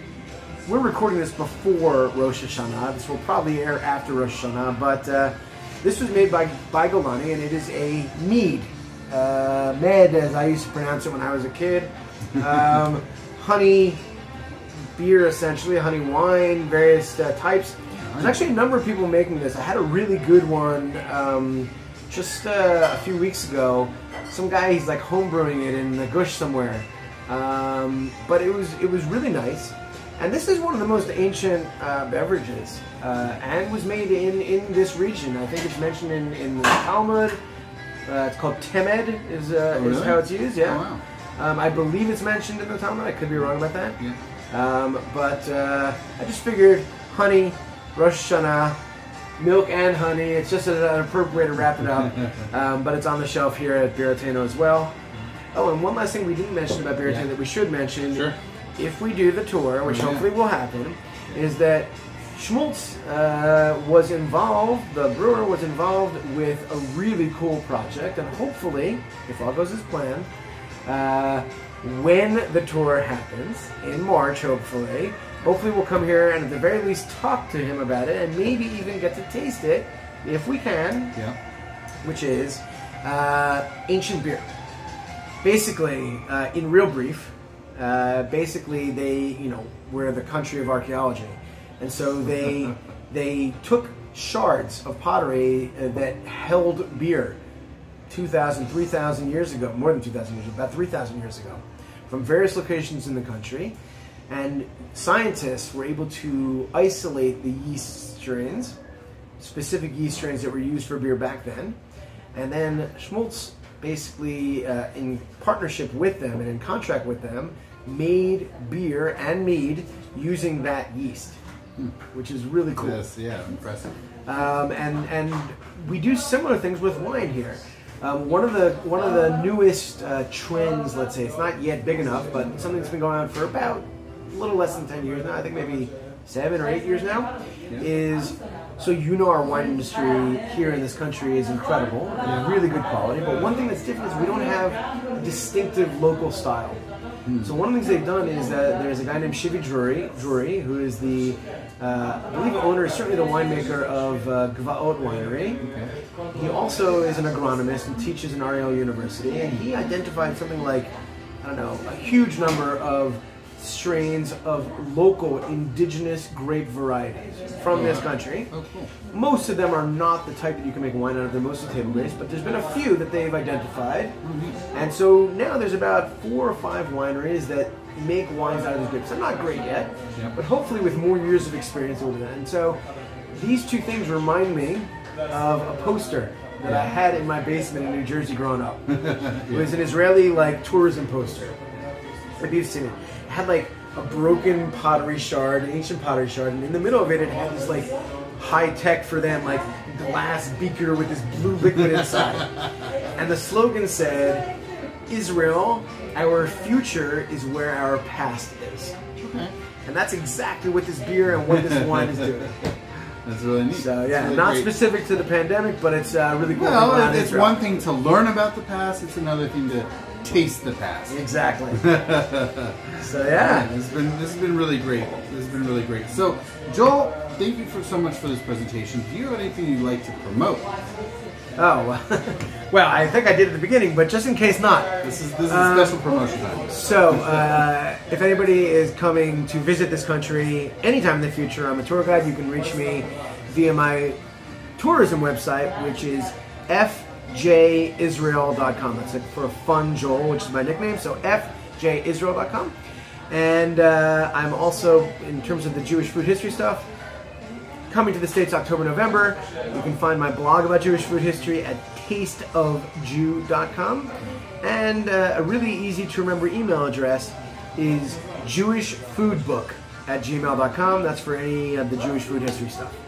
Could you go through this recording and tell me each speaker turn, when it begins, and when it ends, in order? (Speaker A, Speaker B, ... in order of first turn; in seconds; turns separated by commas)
Speaker A: 0.7-14.0, Speaker A: 14.9-37.4, Speaker B: 18.0-18.4, Speaker A: 38.1-40.8, Speaker B: 39.7-41.0, Speaker A: 41.4-44.0, Speaker A: 44.5-48.8, Speaker A: 49.4-55.0, Speaker A: 55.5-70.3, Speaker B: 59.9-60.3, Speaker A: 70.9-81.2, Speaker A: 82.0-84.6, Speaker A: 85.4-97.4, Speaker A: 98.1-103.8, Speaker A: 104.3-108.8, Speaker A: 109.4-111.8, Speaker A: 112.3-121.4, Speaker A: 122.1-123.0, Speaker B: 122.8-124.0, Speaker A: 124.3-146.8, Speaker B: 147.2-147.6, Speaker A: 147.4-155.6, Speaker B: 155.6-155.9, Speaker A: 156.3-168.5, Speaker B: 167.7-168.9, Speaker A: 169.1-174.2, Speaker B: 174.2-174.6, Speaker A: 174.7-182.8, Speaker A: 183.3-188.9, Speaker B: 186.6-186.9, Speaker B: 188.9-189.8, Speaker A: 189.5-191.6, Speaker A: 192.4-202.6, Speaker B: 201.8-202.4, Speaker A: 203.2-204.5, Speaker A: 205.1-209.0, Speaker B: 209.2-209.5, Speaker A: 209.8-212.6, Speaker B: 211.5-212.5, Speaker B: 213.1-214.8, Speaker A: 213.7-217.6, Speaker B: 216.5-221.2, Speaker A: 221.1-222.1, Speaker B: 221.7-230.7, Speaker A: 223.0-223.7, Speaker A: 231.6-236.1, Speaker B: 235.0-237.6, Speaker A: 236.7-244.2, Speaker A: 244.8-252.8, Speaker A: 253.3-256.9, Speaker A: 257.9-273.0